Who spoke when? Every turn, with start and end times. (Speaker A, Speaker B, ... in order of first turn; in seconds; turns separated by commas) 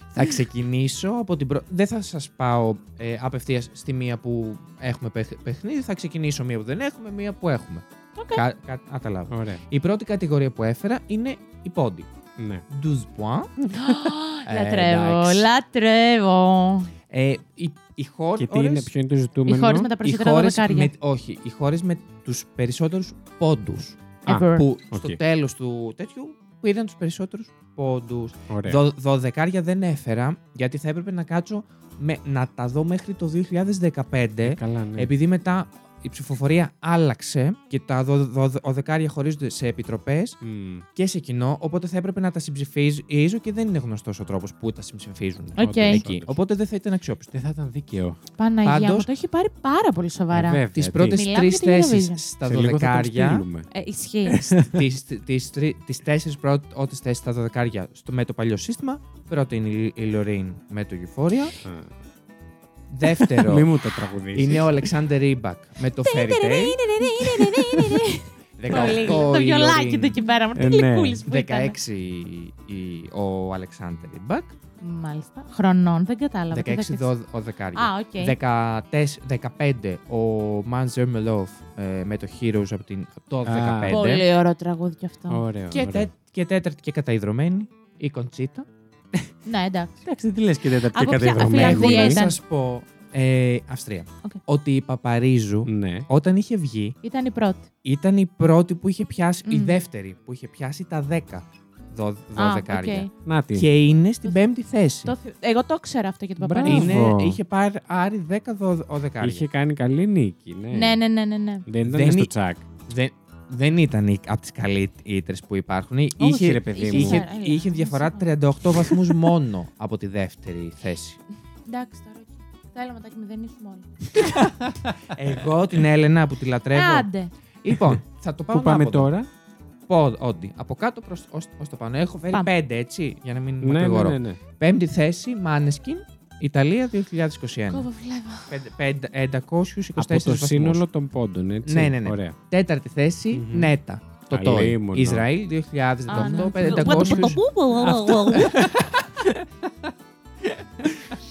Speaker A: 0.1-12.1, Speaker B: 8.2-8.4, Speaker C: 9.3-9.6, Speaker C: 12.4-12.6, Speaker A: 12.7-13.6, Speaker B: 13.7-16.9, Speaker A: 14.4-15.5, Speaker A: 17.1-18.9, Speaker C: 18.4-19.9, Speaker B: 19.5-20.9, Speaker A: 20.0-40.4, Speaker B: 24.3-24.7, Speaker C: 24.3-25.2, Speaker C: 28.5-28.8, Speaker C: 34.4-35.1, Speaker C: 40.4-40.9, Speaker A: 41.0-47.3, Speaker B: 45.6-46.0, Speaker C: 45.6-46.4, Speaker C: 47.3-48.2, Speaker B: 48.4-52.2, Speaker A: 48.6-49.1, Speaker C: 50.3-51.2, Speaker A: 50.7-53.5, Speaker C: 52.4-53.7, Speaker B: 53.7-54.5, Speaker C: 54.3-54.9, Speaker A: 54.6-61.5, Speaker C: 61.6-61.9, Speaker A: 62.9-63.7, Speaker C: 63.2-64.9, Speaker A: 64.3-66.8, Speaker B: 65.9-71.8, Speaker A: 68.6-70.2, Speaker C: 68.7-69.1, Speaker C: 70.5-71.2, Speaker A: 71.3-74.6, Speaker B: 74.8-77.1, Speaker A: 76.5-84.2, Speaker B: 77.8-78.4, Speaker C: 83.5-84.1, Speaker B: 83.9-85.4, Speaker C: 85.3-86.1, Speaker A: 85.7-88.7, Speaker B: 89.5-90.0, Speaker C: 90.0-92.2, Speaker B: 90.9-92.4, Speaker A: 91.4-97.0, Speaker C: 95.7-96.1, Speaker B: 97.0-97.7, Speaker A: 97.8-105.2, Speaker B: 99.5-99.8, Speaker B: 102.4-103.1, Speaker C: 103.2-103.7, Speaker B: 105.0-106.9, Speaker C: 106.4-107.4, Speaker A: 106.7-109.5, Speaker C: 109.2-111.0, Speaker B: 110.7-111.7, Speaker C: 111.7-112.7, Speaker A: 111.9-112.3, Speaker A: 112.9-121.2, Speaker C: 116.2-117.2, Speaker B: 116.7-119.0, Speaker B: 121.7-124.4, Speaker A: 124.2-127.1, Speaker B: 126.7-127.3, Speaker A: 127.6-129.1, Speaker C: 128.5-129.3, Speaker A: 129.9-137.9, Speaker C: 133.6-134.4, Speaker B: 137.7-138.5, Speaker A: 138.5-140.8, Speaker C: 140.0-142.4, Speaker A: 141.6-149.0, Speaker C: 143.3-143.7, Speaker C: 144.3-145.3, Speaker B: 146.1-148.6, Speaker C: 146.2-148.8